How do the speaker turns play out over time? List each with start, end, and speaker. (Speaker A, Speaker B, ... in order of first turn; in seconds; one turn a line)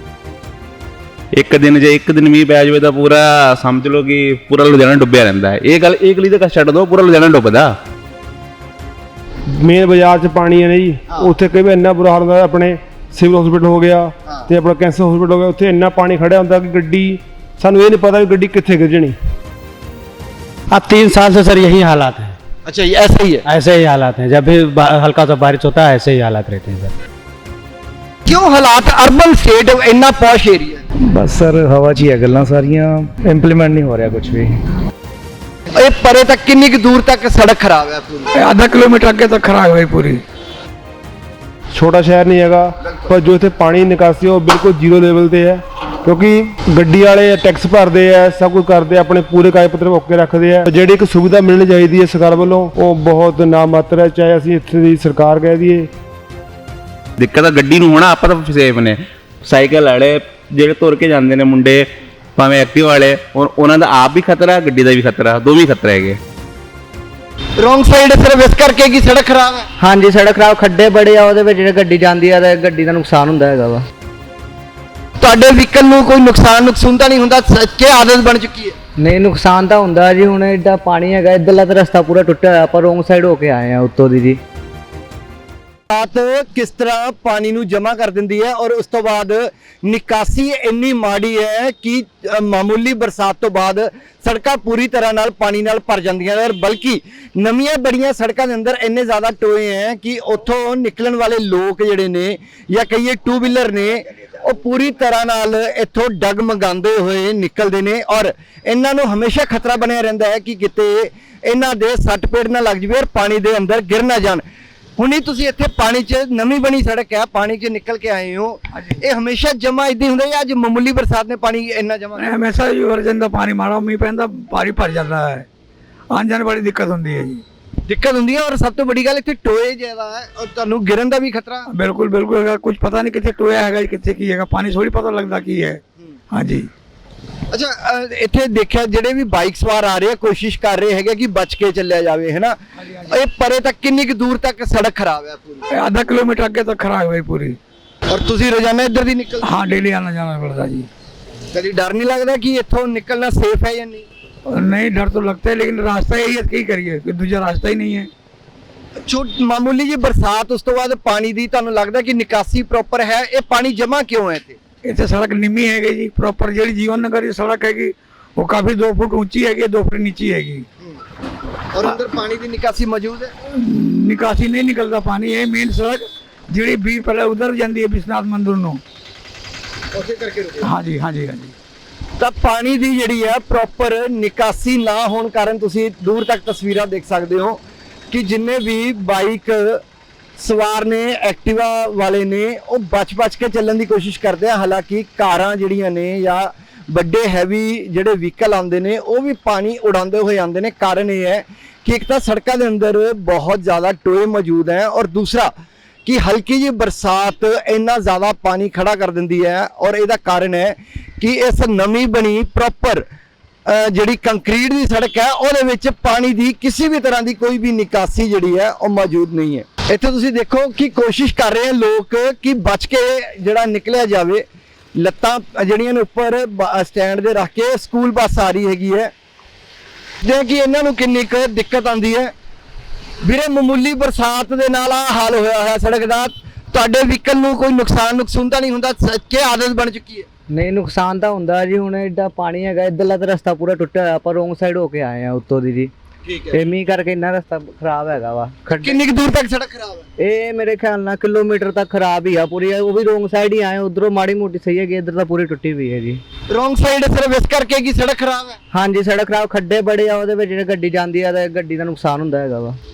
Speaker A: 1.3-7.7
Speaker B: 9.6-19.1
Speaker C: 20.7-22.4
Speaker D: 22.6-23.4
Speaker C: 23.4-26.9
Speaker D: 28.2-30.8
Speaker E: 31.0-34.6
Speaker D: 35.7-38.3
Speaker F: 38.3-40.2
Speaker B: 41.7-55.9
Speaker A: 57.2-61.9
Speaker A: 62.4-66.2
Speaker D: 67.6-69.7
Speaker G: 69.8-73.8
Speaker D: 75.2-78.7
Speaker G: 79.0-84.4
Speaker D: 85.9-114.4
Speaker D: 115.0-122.4
Speaker F: 122.2-125.5
Speaker F: 126.1-127.4
Speaker D: 127.8-131.7
Speaker F: 131.7-135.8
Speaker F: 136.3-136.7
Speaker D: 137.5-145.7
Speaker F: 142.9-143.1
Speaker F: 145.7-147.6
Speaker D: 148.1-149.7
Speaker F: 149.4-150.9
Speaker D: 151.5-154.1
Speaker F: 154.5-158.1
Speaker D: 159.0-164.6
Speaker F: 164.8-170.7
Speaker D: 171.7-173.3
Speaker F: 173.6-178.8
Speaker D: 179.9-180.7
Speaker F: 180.6-181.5
Speaker D: 182.2-189.8
Speaker D: 190.4-205.5
Speaker D: 206.1-213.0
Speaker D: 213.7-224.4
Speaker D: 225.0-229.1
Speaker D: 230.2-232.3
Speaker D: 233.2-240.3
Speaker G: 240.5-245.9
Speaker D: 246.2-246.6
Speaker G: 246.5-249.0
Speaker D: 248.8-250.1
Speaker G: 250.2-256.2
Speaker D: 256.5-258.6
Speaker G: 258.7-262.8